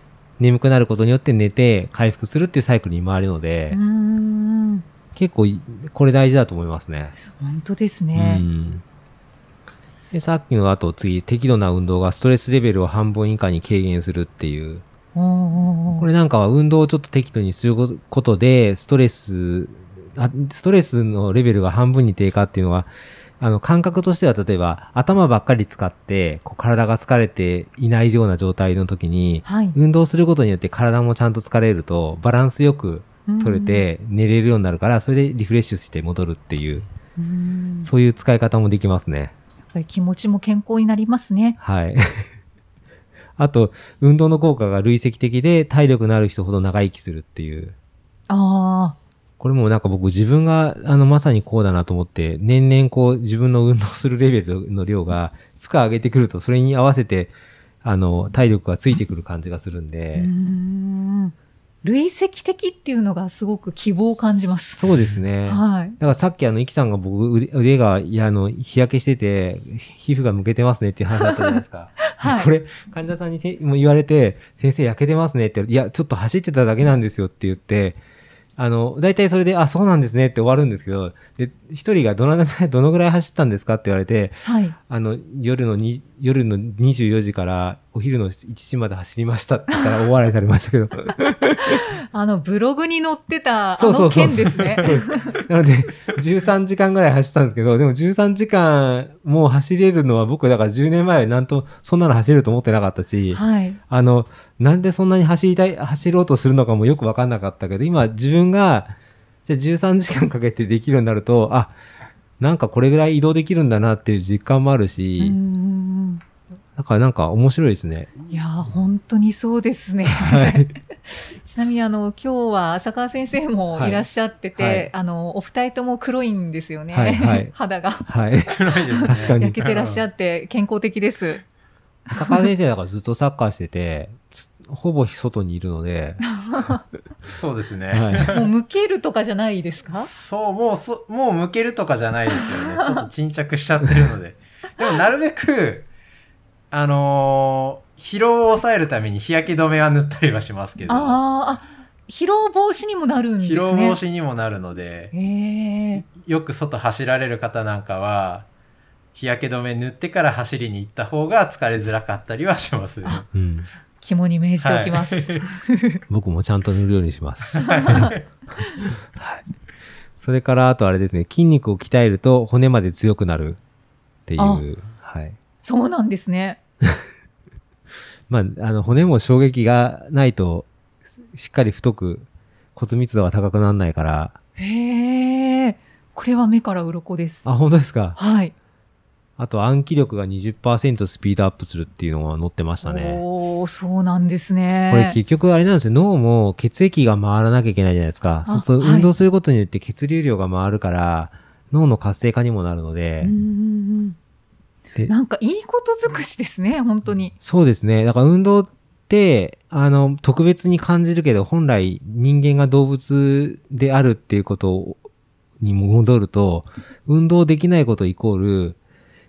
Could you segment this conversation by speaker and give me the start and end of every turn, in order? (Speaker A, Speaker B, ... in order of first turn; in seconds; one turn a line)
Speaker A: 0.4-3.8
Speaker B: 3.7-4.8
Speaker A: 5.2-7.2
Speaker B: 7.4-8.5
Speaker A: 8.1-8.8
Speaker A: 10.1-14.8
Speaker B: 15.1-16.1
Speaker A: 16.0-36.9
Speaker B: 29.4-29.8
Speaker B: 33.3-33.9
Speaker B: 37.2-37.9
Speaker A: 37.8-39.3
Speaker B: 39.7-41.6
Speaker A: 41.6-42.3
Speaker A: 43.4-47.7
Speaker B: 48.3-49.0
Speaker A: 49.4-60.3
Speaker B: 60.1-64.8
Speaker A: 64.7-78.0
Speaker B: 65.5-66.0
Speaker B: 71.2-72.5
Speaker A: 78.6-91.8
Speaker B: 84.4-84.8
Speaker B: 91.5-95.4
Speaker A: 93.8-111.7
Speaker B: 103.3-103.8
Speaker A: 112.4-115.4
Speaker B: 115.2-116.2
Speaker A: 116.8-118.3
Speaker B: 118.3-120.8
Speaker A: 120.1-120.7
Speaker B: 121.4-128.1
Speaker A: 123.7-124.0
Speaker A: 124.6-124.9
Speaker A: 126.9-127.5
Speaker A: 128.1-129.6
Speaker C: 128.5-130.0
Speaker B: 128.9-131.4
Speaker B: 132.1-132.4
Speaker A: 132.1-136.2
Speaker B: 136.3-136.8
Speaker C: 137.3-138.4
Speaker A: 137.9-138.4
Speaker B: 138.3-140.1
Speaker C: 140.0-145.9
Speaker B: 142.6-142.9
Speaker C: 146.7-151.2
Speaker B: 150.9-154.0
Speaker C: 153.4-155.1
Speaker B: 155.1-156.0
Speaker C: 155.9-158.5
Speaker C: 159.1-163.2
Speaker A: 163.3-163.7
Speaker B: 164.0-166.0
Speaker C: 164.6-165.4
Speaker A: 166.1-168.2
Speaker C: 167.5-168.2
Speaker B: 167.6-168.7
Speaker A: 168.8-169.4
Speaker A: 170.2-173.6
Speaker A: 174.3-175.4
Speaker B: 174.4-174.6
Speaker B: 175.6-176.6
Speaker A: 178.3-180.7
Speaker A: 181.3-184.4
Speaker B: 184.6-187.5
Speaker A: 187.4-188.2
Speaker B: 188.2-188.5
Speaker A: 189.4-193.2
Speaker B: 192.8-195.2
Speaker A: 194.9-203.3
Speaker B: 198.4-199.1
Speaker B: 203.2-204.2
Speaker B: 205.1-207.3
Speaker A: 207.4-215.0
Speaker A: 215.6-218.8